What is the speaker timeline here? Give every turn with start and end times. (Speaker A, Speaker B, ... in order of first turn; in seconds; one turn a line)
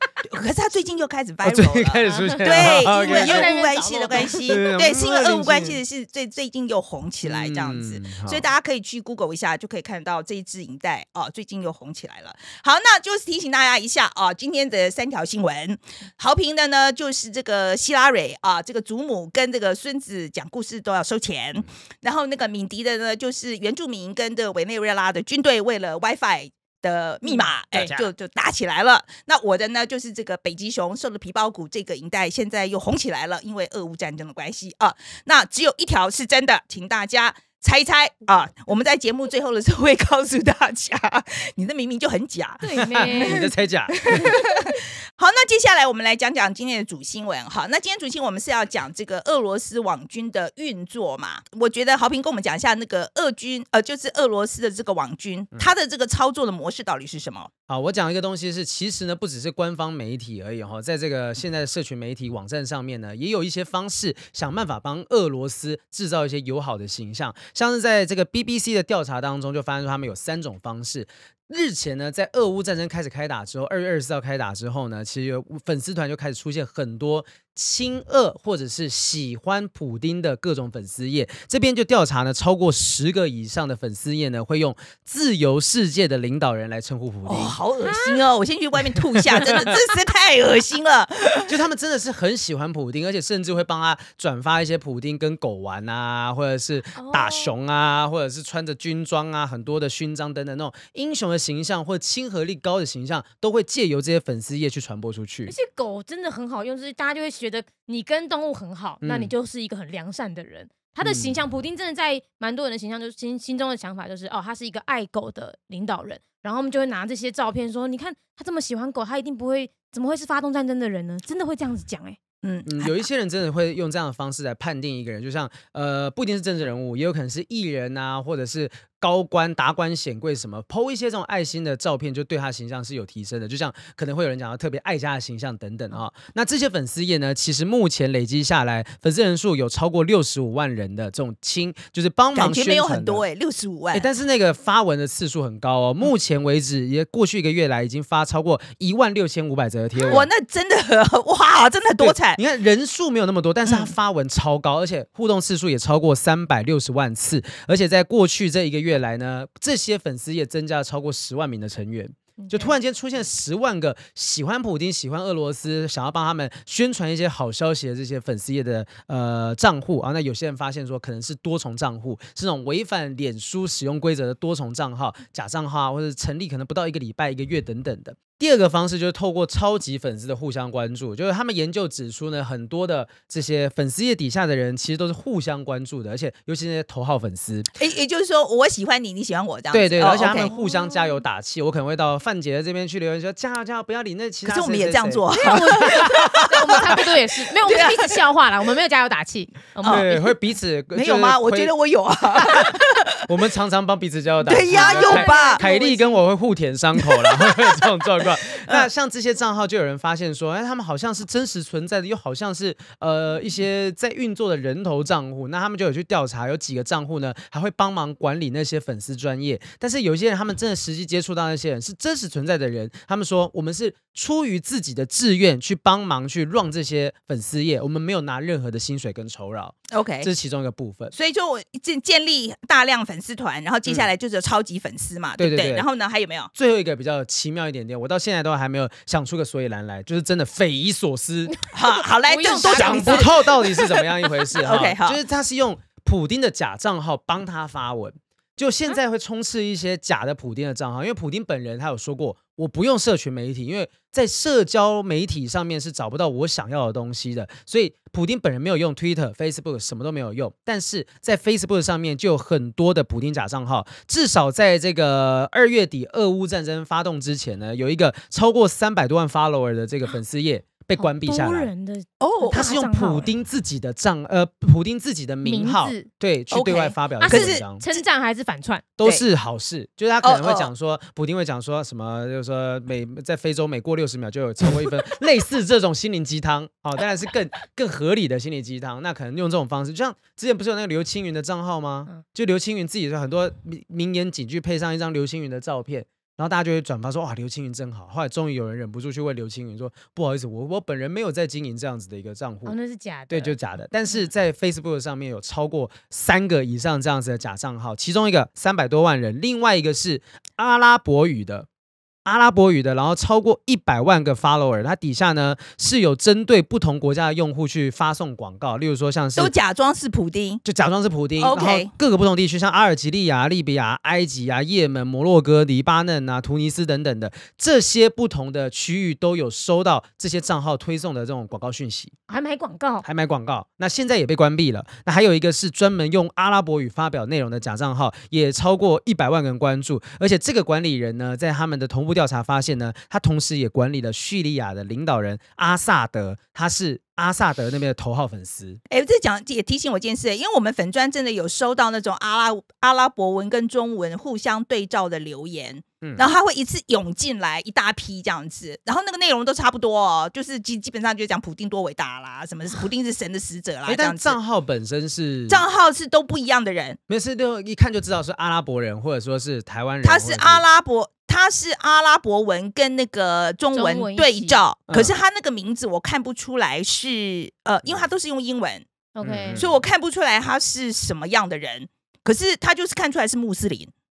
Speaker A: 0.2-57.5
Speaker B: 1.4-3.5
Speaker C: 2.0-4.5
Speaker B: 4.4-5.8
Speaker B: 7.2-8.5
Speaker B: 27.7-28.1
Speaker C: 42.6-43.4
Speaker B: 42.9-44.4
Speaker C: 44.1-44.6
Speaker B: 57.7-87.6
Speaker A: 87.3-91.5
Speaker C: 87.8-88.3
Speaker B: 91.5-105.5
Speaker C: 97.0-97.5
Speaker C: 105.5-122.2
Speaker B: 109.0-109.3
Speaker B: 111.0-111.4
Speaker A: 122.4-123.0
Speaker B: 122.7-143.2
Speaker A: 142.3-144.1
Speaker B: 143.9-150.3
Speaker A: 150.1-152.4
Speaker B: 152.0-187.7
Speaker A: 153.7-153.9
Speaker C: 162.4-162.8
Speaker A: 187.8-190.5
Speaker B: 189.7-196.8
Speaker C: 190.5-191.2
Speaker A: 194.5-197.0
Speaker C: 195.4-200.3
Speaker A: 197.7-198.2
Speaker A: 199.8-200.1
Speaker B: 199.9-201.7
Speaker A: 200.9-203.2
Speaker B: 202.4-202.8
Speaker B: 203.3-231.1
Speaker A: 204.5-205.6
Speaker C: 204.7-206.2
Speaker A: 207.0-208.9
Speaker A: 229.9-230.3
Speaker A: 231.1-236.5
Speaker B: 235.4-235.8
Speaker B: 236.5-241.6
Speaker A: 241.7-244.1
Speaker C: 242.3-243.3
Speaker B: 242.5-271.7
Speaker A: 244.6-245.2
Speaker C: 271.0-273.3
Speaker A: 272.2-272.7
Speaker B: 272.5-277.8
Speaker C: 275.4-276.1
Speaker A: 276.5-278.0
Speaker C: 277.2-278.8
Speaker B: 279.0-302.8
Speaker A: 280.2-280.7
Speaker C: 302.6-303.6
Speaker B: 303.3-311.7
Speaker B: 312.2-319.5
Speaker A: 319.4-320.6
Speaker B: 320.6-332.1
Speaker A: 321.4-321.9
Speaker C: 332.3-333.1
Speaker B: 333.0-348.8
Speaker A: 348.9-364.4
Speaker B: 356.0-356.3
Speaker B: 363.9-365.6
Speaker A: 365.5-367.0
Speaker B: 367.1-370.6
Speaker A: 370.0-378.9
Speaker C: 373.7-374.6
Speaker B: 374.9-375.1
Speaker C: 379.1-379.6
Speaker B: 379.2-379.8
Speaker A: 379.6-383.9